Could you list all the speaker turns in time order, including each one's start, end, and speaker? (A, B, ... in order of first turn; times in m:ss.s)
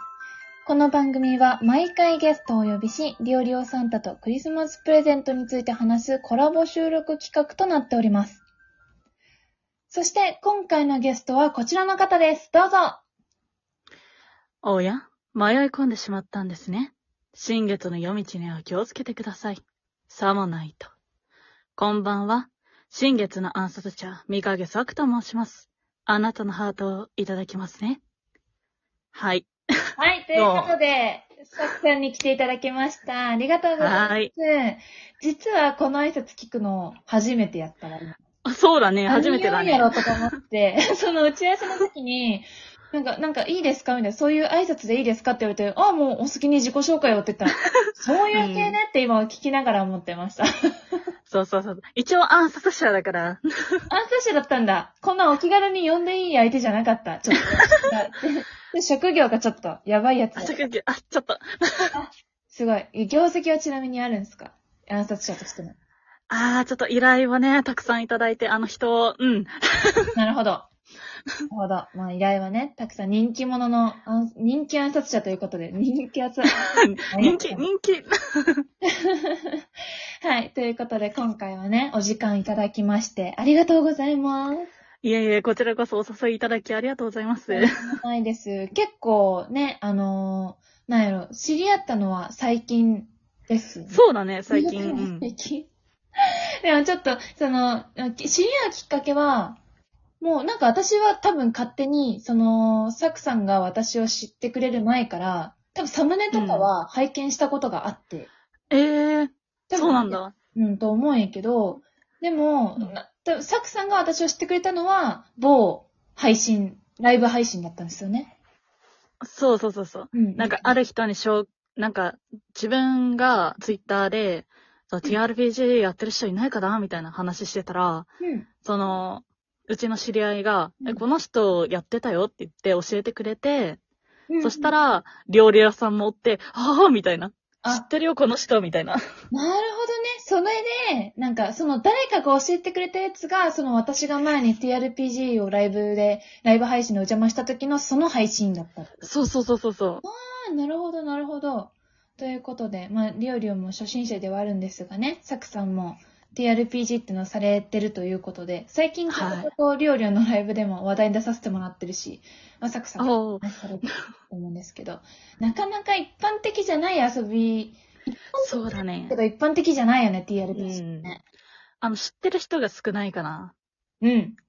0:00.7-0:08.4 A
0:09.9-0:13.0 A
0:14.6-0:20.9 B
0:21.8-0:28.0 B
0:29.1-0:29.6 B
0:30.0-0:38.2 A
0:30.3-0:30.7 B
0:33.8-0:34.3 B
0:38.4-0:40.3 B
0:39.0-0:50.4 A
0:48.3-0:48.8 B
0:51.3-0:53.8 B
0:53.9-1:00.6 A
1:00.4-1:02.0 B
1:01.9-1:05.8 A
1:06.3-1:10.1 B
1:10.1-1:10.7 A
1:11.5-1:17.7 A
1:16.5-1:18.6 B
1:19.0-1:19.6 A
1:20.2-1:24.7 A
1:25.0-1:27.8 B
1:27.5-1:35.7 A
1:33.9-1:35.3 B
1:36.6-1:39.6 A
1:40.2-1:48.3 A
1:46.3-1:46.7 B
1:48.7-1:50.3 B
1:49.7-1:58.3 A
1:59.2-2:08.1 B
2:00.1-2:00.8 A
2:08.2-2:08.5 A
2:08.6-2:13.8 B
2:14.3-2:14.7 A
2:14.4-2:19.0 B
2:19.3-2:29.1 A
2:29.0-2:30.0 B
2:30.0-2:51.2 A
2:39.1-2:39.5 B
2:43.0-2:44.0 B
2:48.4-2:49.2 B
2:50.5-2:51.1 B
2:51.8-2:53.5 B
2:54.0-2:54.4 A